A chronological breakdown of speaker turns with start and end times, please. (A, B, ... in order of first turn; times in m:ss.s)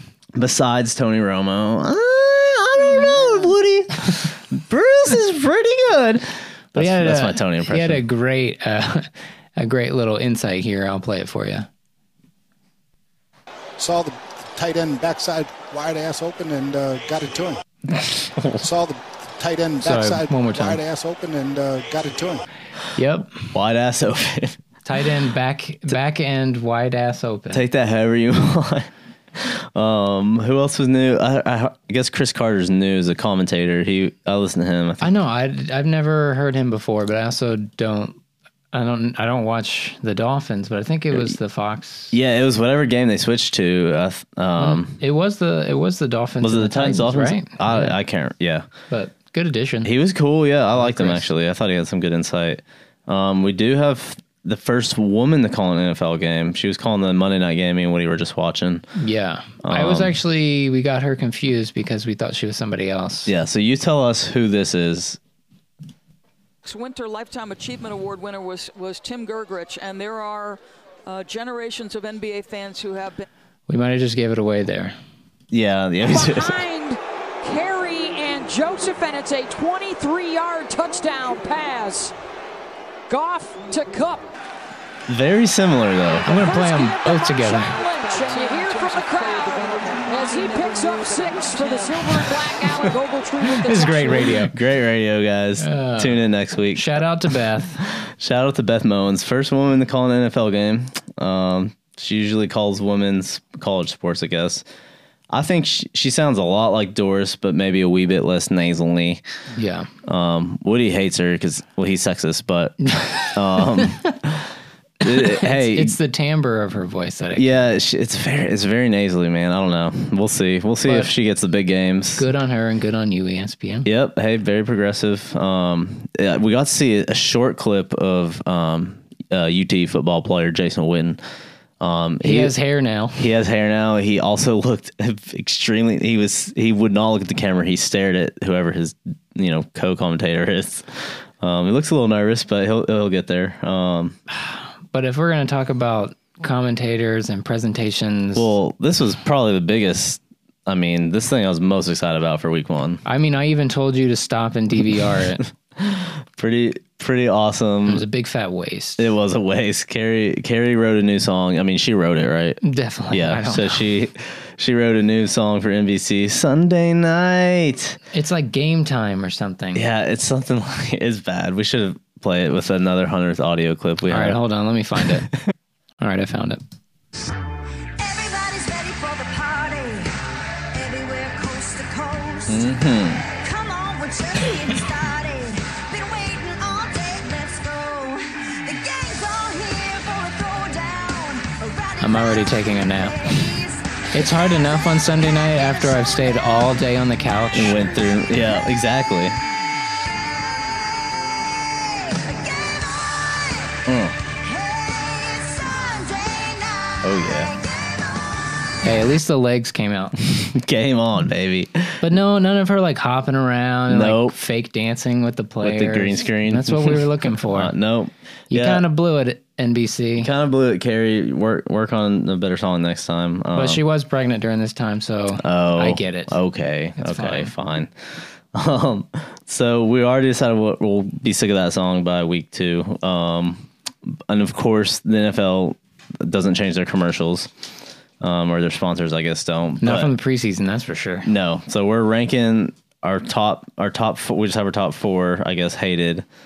0:00.4-0:08.0 A
0:03.0-0:03.4 B
0:06.7-0:11.7 B
0:13.8-0:17.6 C
0:18.0-0:18.7 A
0:18.6-0:22.4 C
0:19.8-0:20.8 B
0:23.0-0:23.5 B
0:23.5-0:24.6 A
0:24.8-0:27.6 B
0:27.5-0:35.1 A
0:35.0-0:38.2 B
0:38.7-0:42.2 B
0:42.1-0:45.0 A
0:44.6-0:48.0 B
0:46.4-0:48.7 A
0:48.9-0:49.9 B
0:49.8-0:58.9 A
0:50.8-0:51.2 B
0:59.0-1:03.3 B
0:59.6-1:00.2 A
1:03.3-1:05.2 A
1:06.6-1:13.3 D
1:13.7-1:15.0 B
1:15.5-1:16.7 A
1:16.0-1:22.1 D
1:23.1-1:24.2 D
1:25.1-1:26.3 A
1:26.3-1:27.8 B
1:26.3-1:34.3 D
1:33.4-1:34.6 B
1:34.4-1:37.3 A
1:35.6-1:37.9 B
1:37.8-1:44.6 A
1:45.3-1:49.2 A
1:49.5-1:49.9 B
1:50.0-1:54.5 A
1:52.8-1:53.9 B
1:55.0-1:56.0 A
1:55.0-1:57.5 B
1:57.4-2:02.3 A
2:00.9-2:01.1 B
2:02.2-2:03.9 B
2:03.8-2:11.2 A
2:11.8-2:12.5 A
2:12.2-2:13.3 B
2:13.2-2:24.2 A
2:24.3-2:28.5 B
2:28.4-2:33.0 A
2:33.0-2:35.4 B
2:35.8-2:38.0 A
2:37.9-2:39.1 B
2:39.0-2:42.6 A
2:42.6-2:43.8 B
2:43.1-2:48.0 A
2:48.1-2:49.9 B
2:49.8-2:54.4 A
2:54.1-2:55.3 B
2:56.0-2:56.6 B
2:58.0-3:00.2 E
3:00.7-3:16.7 E
3:02.5-3:03.2 A
3:12.0-3:13.3 B
3:14.1-3:17.8 B
3:17.5-3:19.4 A
3:17.9-3:18.5 E
3:20.0-3:20.9 E
3:21.6-3:28.6 E
3:23.9-3:24.2 A
3:27.0-3:27.5 A
3:28.8-3:30.1 B
3:30.2-3:32.0 A
3:32.0-3:37.7 B
3:33.9-3:34.4 A
3:35.6-3:38.8 A
3:38.5-3:40.3 B
3:40.2-3:43.8 A
3:43.5-3:46.4 B
3:45.4-3:57.5 A
3:47.0-3:47.5 B
3:58.2-4:00.1 A
3:59.8-4:01.3 B
4:01.2-4:06.3 A